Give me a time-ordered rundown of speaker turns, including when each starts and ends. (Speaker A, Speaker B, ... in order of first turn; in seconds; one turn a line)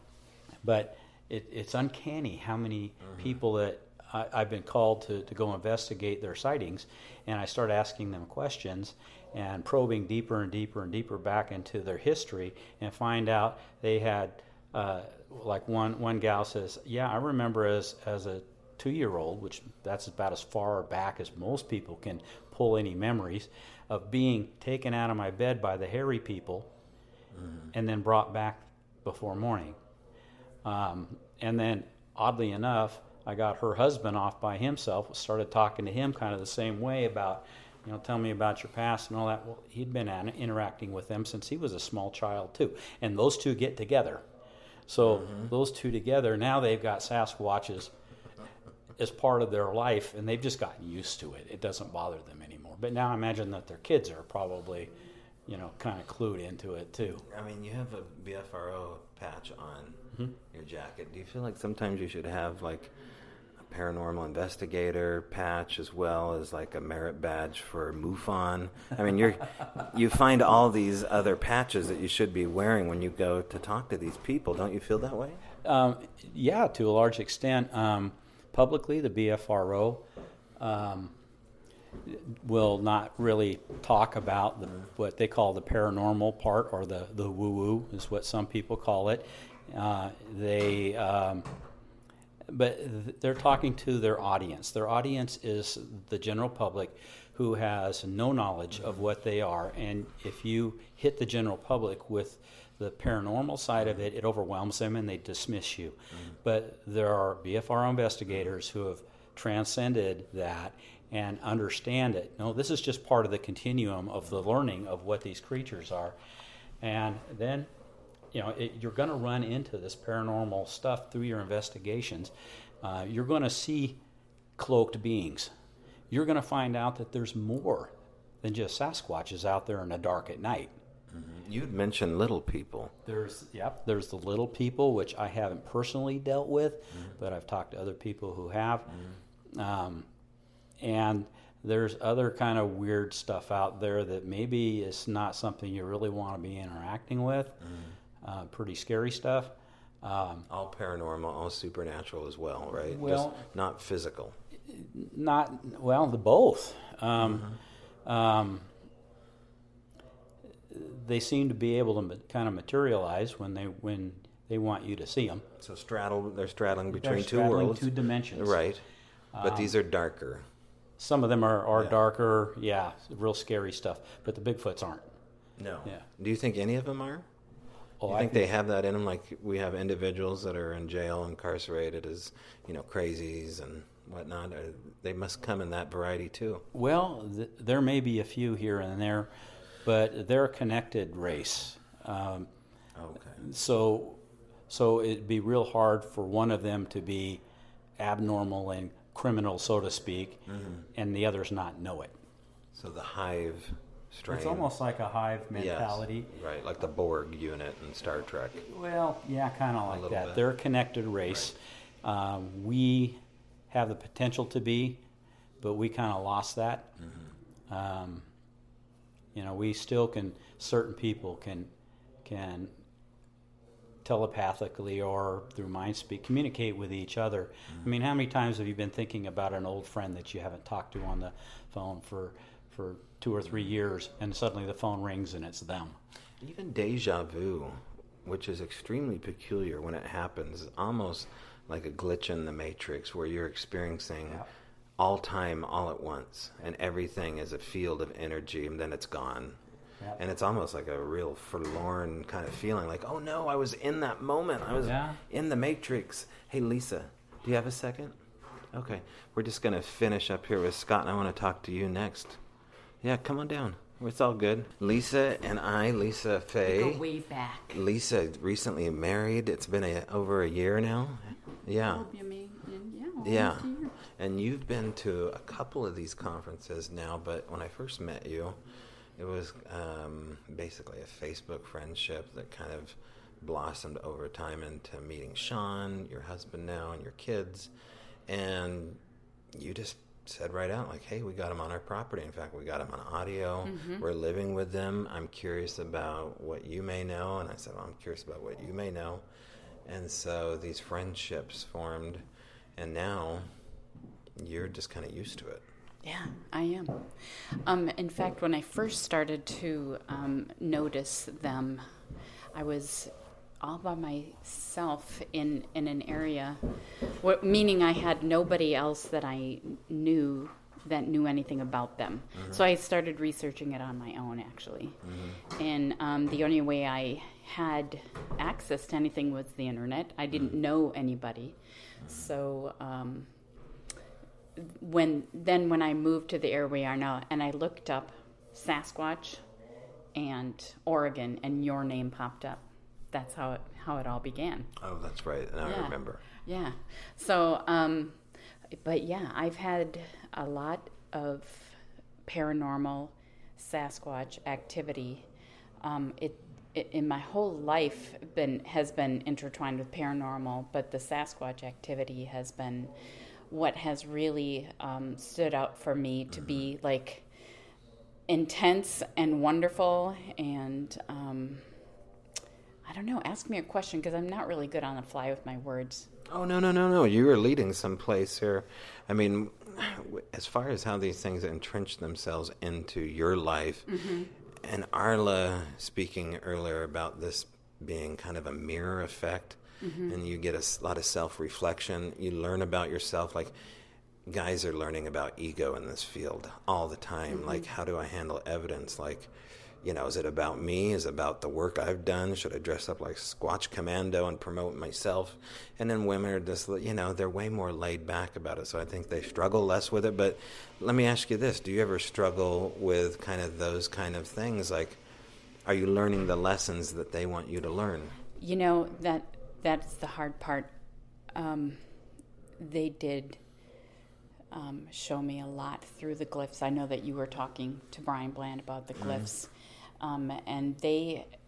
Speaker A: 0.6-26.7
Speaker B: 3.0-3.4
Speaker A: 27.7-29.8
Speaker A: 30.6-44.3
Speaker A: 44.9-47.9
Speaker B: 45.0-45.5
Speaker A: 49.0-54.9
Speaker A: 55.5-57.2
Speaker B: 57.3-62.9
Speaker B: 63.6-75.4
Speaker A: 75.6-80.0
Speaker A: 80.6-81.1
Speaker A: 82.1-91.5
Speaker A: 92.5-116.2
Speaker B: 98.8-99.0
Speaker A: 116.8-117.7
Speaker A: 118.3-124.0
Speaker A: 124.6-125.5
Speaker A: 126.1-130.7
Speaker B: 131.1-132.9
Speaker A: 133.1-138.9
Speaker B: 138.9-139.1
Speaker A: 139.6-140.1
Speaker A: 140.8-147.6
Speaker B: 147.6-147.9
Speaker A: 148.2-150.4
Speaker B: 150.5-154.4
Speaker A: 152.8-153.4
Speaker A: 154.7-157.5
Speaker B: 157.2-157.6
Speaker A: 158.1-158.7
Speaker A: 160.7-165.4
Speaker B: 165.6-168.8
Speaker A: 166.9-168.6
Speaker A: 169.3-169.7
Speaker B: 169.4-170.4
Speaker A: 171.0-175.1
Speaker B: 175.6-177.3
Speaker A: 178.0-178.5
Speaker B: 178.1-186.6
Speaker A: 186.7-189.3
Speaker A: 189.8-192.5
Speaker B: 192.9-193.4
Speaker A: 193.4-197.4
Speaker A: 198.0-200.4
Speaker B: 200.5-200.9
Speaker A: 200.9-202.2
Speaker B: 202.7-204.7
Speaker A: 204.3-206.3
Speaker B: 205.5-208.7
Speaker A: 208.7-215.1
Speaker B: 209.9-210.4
Speaker B: 211.3-211.5
Speaker A: 215.6-216.9
Speaker A: 217.7-218.3
Speaker A: 219.3-221.7
Speaker A: 222.2-222.7
Speaker A: 224.1-236.0
Speaker B: 236.4-244.4
Speaker B: 245.0-249.6
Speaker B: 250.2-258.2
Speaker A: 254.8-255.2
Speaker B: 258.7-262.4
Speaker B: 263.0-267.1
Speaker C: 266.6-267.8
Speaker B: 267.7-272.1
Speaker C: 271.8-273.9
Speaker B: 273.2-278.6
Speaker B: 279.2-287.7
Speaker B: 288.3-289.0
Speaker B: 289.5-299.2
Speaker C: 293.6-294.1
Speaker B: 299.9-302.2
Speaker B: 302.8-303.5
Speaker B: 304.4-305.6
Speaker C: 306.0-311.9
Speaker C: 312.5-316.6
Speaker C: 317.2-325.0
Speaker B: 322.3-322.6
Speaker B: 325.0-325.4
Speaker C: 325.6-333.3
Speaker B: 332.0-332.3
Speaker C: 334.6-339.4
Speaker C: 340.1-344.7
Speaker B: 344.8-346.2
Speaker C: 345.6-355.3
Speaker C: 355.8-362.9
Speaker C: 363.5-367.3
Speaker B: 366.3-366.7
Speaker C: 368.3-371.7
Speaker C: 372.8-376.1
Speaker B: 376.3-383.9
Speaker C: 383.9-384.3
Speaker B: 384.6-393.5
Speaker C: 389.8-390.2
Speaker B: 394.3-415.0
Speaker C: 397.3-397.7
Speaker B: 415.6-418.1
Speaker C: 418.4-420.7
Speaker C: 421.3-421.9
Speaker C: 422.6-423.4
Speaker C: 424.5-431.3
Speaker B: 428.9-429.3